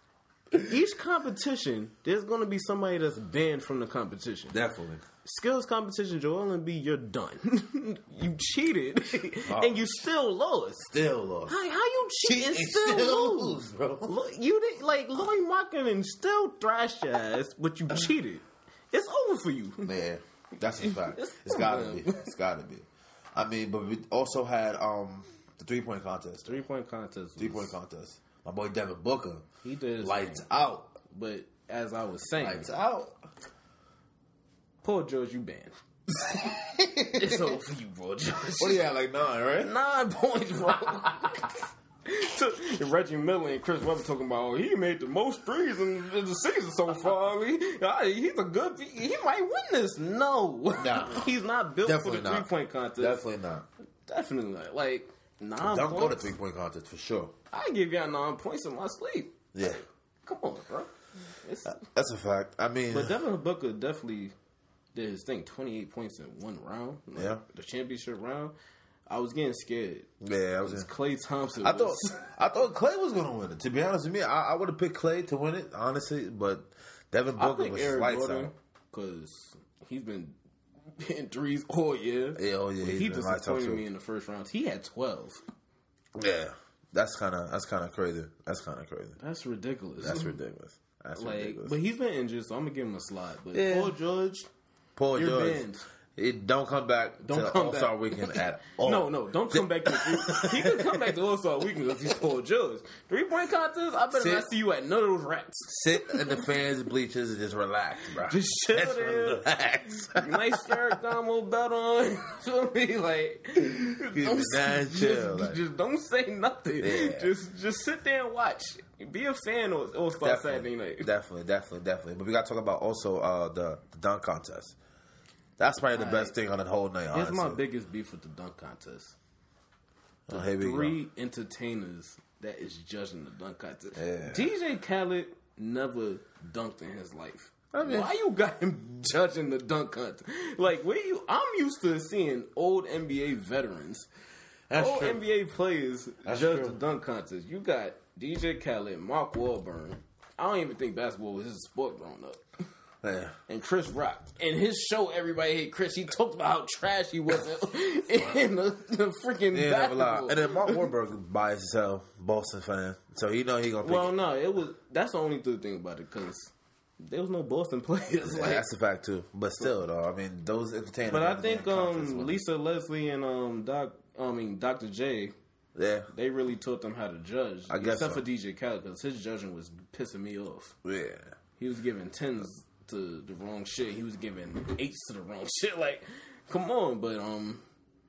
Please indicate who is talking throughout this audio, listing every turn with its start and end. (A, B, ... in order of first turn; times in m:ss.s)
0:00.5-0:04.6 A
0:04.5-0:05.0 B
0:05.2-0:10.9 A
0:09.5-0:09.8 B
0:10.9-0:11.6 B
0:11.5-0:19.9 A
0:12.2-0:14.1 B
0:19.8-0:26.6 B
0:20.8-0:22.3 A
0:26.4-0:27.7 A
0:27.4-0:29.4 B
0:29.6-0:30.4 A
0:30.0-0:30.9 B
0:31.1-0:32.7 A
0:32.4-0:33.1 B
0:34.8-0:35.7 A
0:36.1-0:37.6 B
0:37.1-0:38.8 A
0:38.6-0:39.7 B
0:39.6-0:53.2 A
0:50.8-0:51.3 B
0:51.8-0:53.6 B
0:54.0-0:56.3 A
0:55.6-0:57.3 B
0:57.5-0:59.5 A
0:59.5-0:59.8 B
1:00.2-1:01.8 A
1:01.6-1:03.2 B
1:02.9-1:04.3 A
1:04.9-1:08.5 A
1:07.1-1:07.4 B
1:09.1-1:10.1 A
1:10.2-1:10.9 B
1:10.6-1:12.3 A
1:11.6-1:18.5 B
1:17.4-1:20.3 A
1:21.0-1:25.4 A
1:22.4-1:23.8 B
1:26.2-1:29.2 B
1:29.2-1:30.4 A
1:30.0-1:31.8 B
1:31.2-1:34.5 A
1:33.5-1:34.0 B
1:35.0-1:41.1 B
1:35.1-1:35.8 A
1:37.2-1:46.4 A
1:44.1-1:44.5 B
1:45.7-1:50.8 B
1:48.2-1:49.4 A
1:50.2-2:01.1 A
1:54.0-1:55.6 B
1:56.8-1:57.3 B
2:00.2-2:04.8 B
2:05.6-2:07.6 B
2:05.9-2:06.3 A
2:07.1-2:09.1 A
2:10.3-2:11.0 B
2:10.3-2:24.1 A
2:14.0-2:14.5 B
2:17.7-2:18.1 B
2:24.7-2:25.2 B
2:24.7-2:32.4 A
2:26.2-2:26.8 B
2:33.0-2:33.4 B
2:33.5-2:40.8 A
2:39.5-2:44.1 B
2:43.8-2:48.7 A
2:48.2-2:52.4 B
2:51.1-2:55.3 A
2:55.7-2:56.1 B
2:56.1-3:00.8 A
2:57.7-2:58.2 B
3:00.8-3:01.3 B
3:01.6-3:07.6 A